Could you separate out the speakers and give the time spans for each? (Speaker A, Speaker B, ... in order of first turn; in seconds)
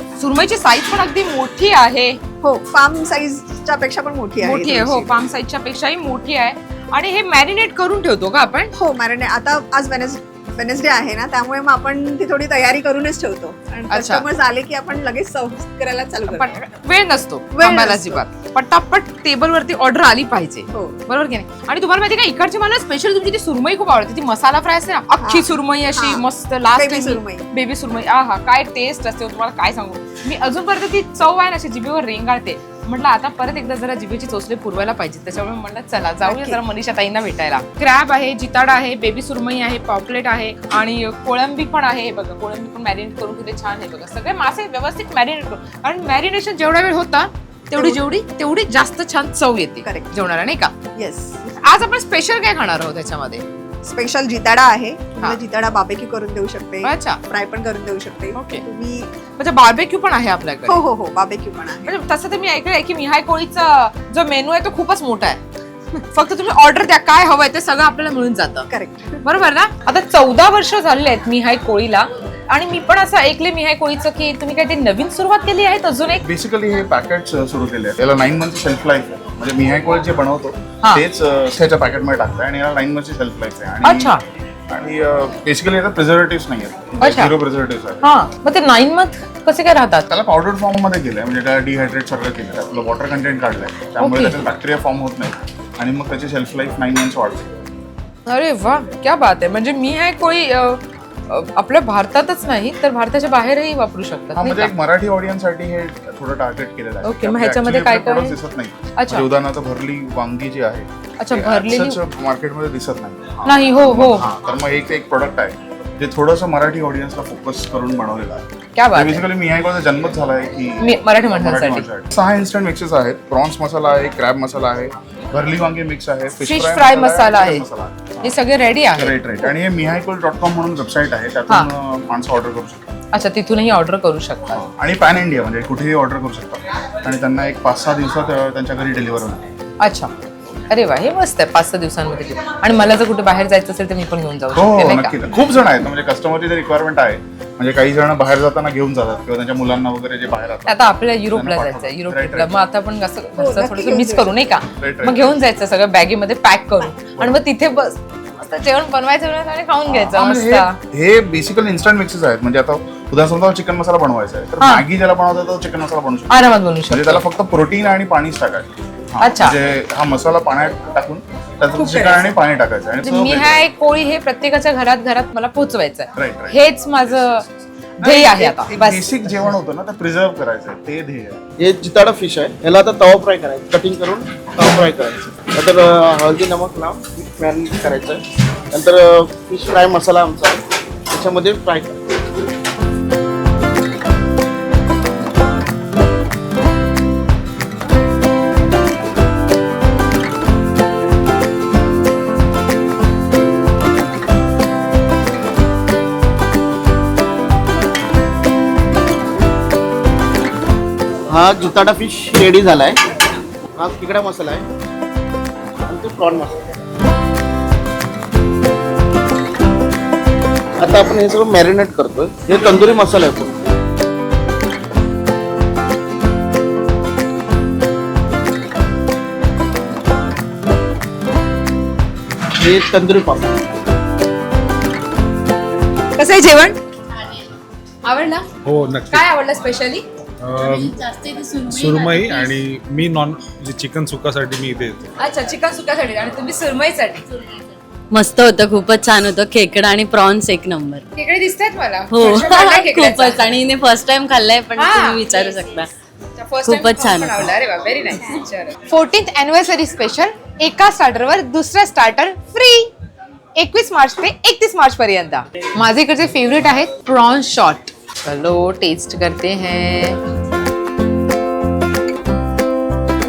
Speaker A: 0.2-2.2, 4.4-8.7, 13.9-14.2, 16.3-50.7, 51.6-53.4, 56.8-57.2, 58.3-58.6, 59.4-60.8, 61.9-65.4, 66.0-68.7, 69.2-76.2, 83.8-84.2, 87.0-87.3, 88.0-90.1, 94.0-94.4, 98.3-104.7, 107.0-108.4, 109.0-109.3, 111.2-112.0, 113.4-114.3, 118.7-119.2, 120.8-121.9, 126.4-127.6, 128.2-129.1, 133.1-134.6, 139.8-140.1, 140.7-145.2, 150.7-160.8, 164.6-164.8, 166.3-167.2, 169.2-169.6, 173.0-177.4, 178.0-179.5, 236.2-236.8, 238.0-238.4, 239.1-240.0, 240.9-242.0, 245.2-247.5, 251.1-253.5, 254.8-255.2, 256.4-262.9, 263.6-270.2
Speaker B: 2.4-5.1, 8.8-16.6, 17.5-18.2, 20.7-21.0, 25.2-26.2, 26.8-27.4, 36.2-36.6, 47.8-48.0, 49.8-50.1, 50.9-51.5, 53.8-59.1, 60.7-61.9, 68.7-69.2, 153.4-154.3, 171.8-172.3
Speaker C: 76.2-84.2, 84.7-88.0, 90.1-97.5, 104.3-128.3, 128.9-132.8, 134.5-139.5, 144.5-152.5, 154.8-155.4, 159.9-173.6, 176.1-177.4, 178.0-181.4
Speaker D: 181.6-188.2, 188.7-192.0, 211.3-213.0, 213.8-214.6, 215.9-216.6, 220.8-223.6, 232.6-233.5
Speaker E: 238.6-239.2, 240.4-241.0, 241.6-245.1
Speaker F: 248.1-251.0, 252.1-255.9, 256.6-257.5